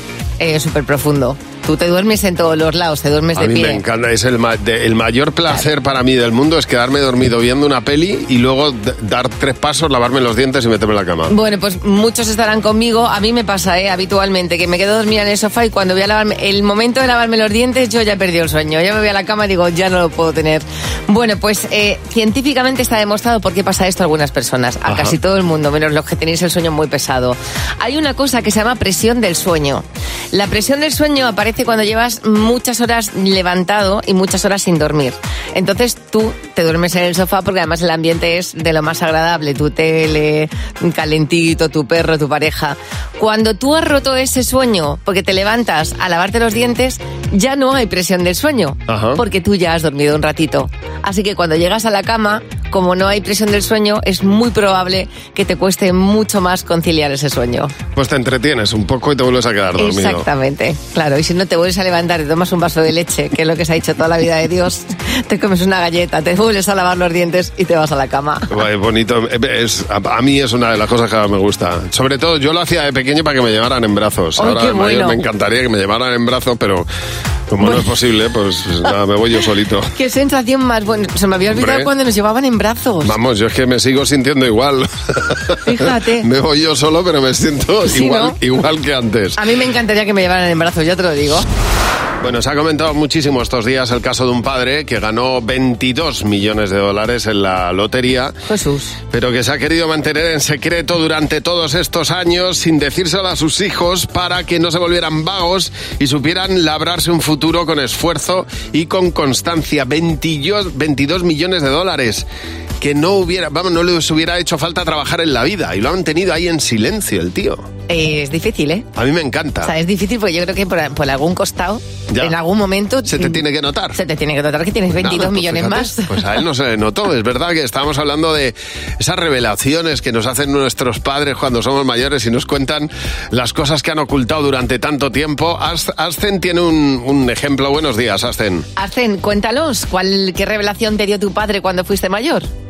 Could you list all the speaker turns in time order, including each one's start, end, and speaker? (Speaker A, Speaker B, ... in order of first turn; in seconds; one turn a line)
Speaker A: 0.4-3.8
Speaker B: 3.4-11.3
Speaker A: 11.3-57.7
Speaker B: 24.9-25.2
Speaker B: 48.9-49.2
Speaker B: 58.0-60.3
Speaker A: 59.8-68.5
Speaker B: 68.5-76.9
Speaker A: 74.4-75.2
Speaker B: 77.5-79.9
Speaker A: 77.6-77.9
Speaker A: 80.0-83.1
Speaker B: 81.5-81.9
Speaker B: 83.0-89.4
Speaker A: 85.6-86.2
Speaker A: 87.9-88.4
Speaker A: 89.4-91.5
Speaker B: 92.2-98.3
Speaker A: 98.5-99.0
Speaker B: 99.1-112.2
Speaker B: 112.8-117.7
Speaker A: 117.9-118.9
Speaker B: 119.0-119.7
Speaker A: 119.6-123.4
Speaker B: 123.1-124.0
Speaker A: 124.0-126.3
Speaker B: 124.9-138.7
Speaker A: 138.8-142.5